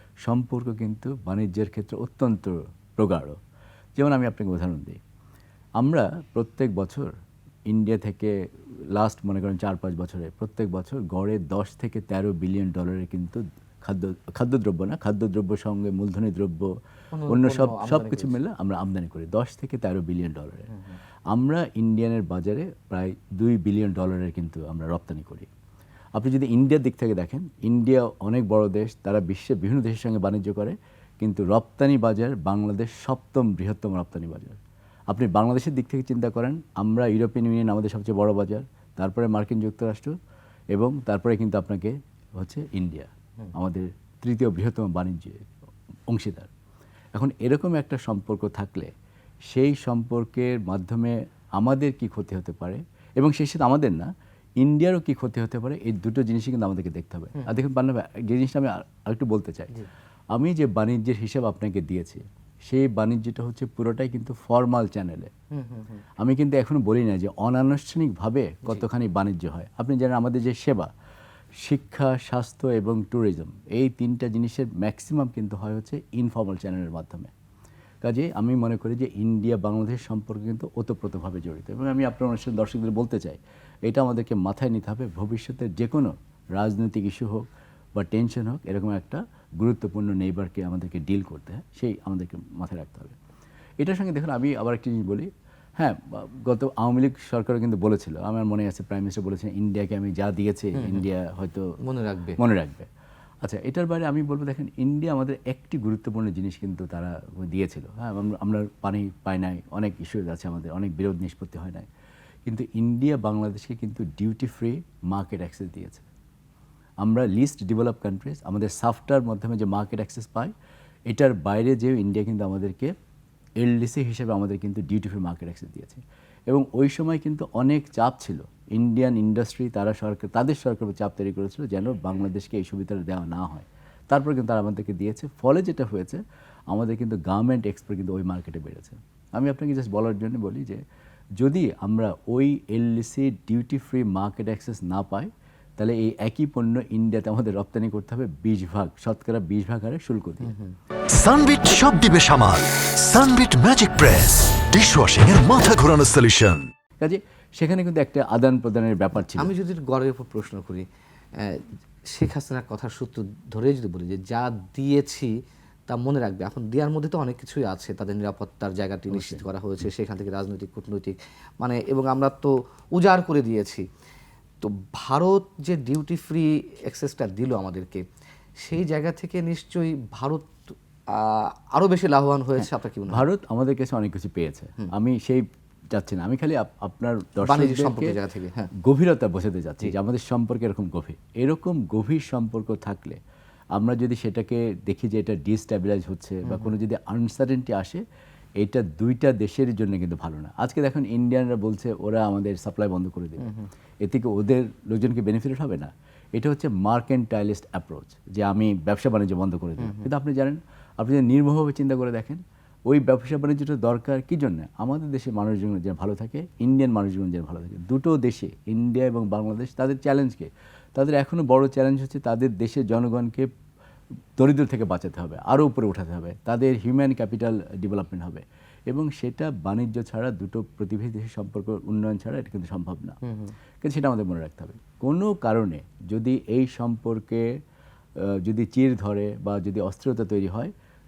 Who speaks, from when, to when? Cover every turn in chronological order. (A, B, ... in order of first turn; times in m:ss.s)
0:00.2-0:03.4 A
0:04.0-0:05.0 A
0:05.8-0:07.1 A
0:07.7-0:08.3 A
0:08.9-0:16.7 A
0:17.1-0:18.4 B
0:17.3-0:20.7 A
0:21.3-0:25.5 A
0:26.2-0:34.6 A
0:35.1-0:40.1 A
0:40.7-0:45.4 A
0:46.1-0:46.5 A
0:47.1-0:48.9 A
0:49.5-0:54.1 A
0:54.6-0:59.8 A
1:00.3-1:05.3 A
1:05.5-1:06.0 B
1:06.2-1:10.9 A
1:11.6-1:17.3 A
1:18.0-1:33.2 A
1:33.8-1:41.7 A
1:40.7-1:41.0 B
1:41.8-1:42.4 B
1:42.4-1:42.9 A
1:43.4-1:51.9 A
1:52.5-1:56.1 A
1:57.0-2:00.5 A
2:01.1-2:02.9 A
2:03.6-2:20.8 A
2:21.4-2:30.5 A
2:30.4-2:30.7 B
2:31.1-2:36.7 C
2:37.0-2:39.5 A
2:39.2-2:45.3 B
2:45.9-2:53.8 B
2:49.1-2:49.4 A
2:54.6-2:58.0 B
2:58.6-3:03.2 B
3:02.6-3:08.2 A
3:07.4-3:08.7 B
3:08.8-3:13.2 A
3:13.8-3:18.0 A
3:16.4-3:16.7 B
3:18.6-3:23.5 A
3:23.4-3:23.7 B
3:24.0-3:43.5 A
3:29.8-3:30.1 B
3:44.4-3:53.2 A
3:53.2-3:53.5 B
3:53.8-3:57.5 A
3:58.2-4:00.7 A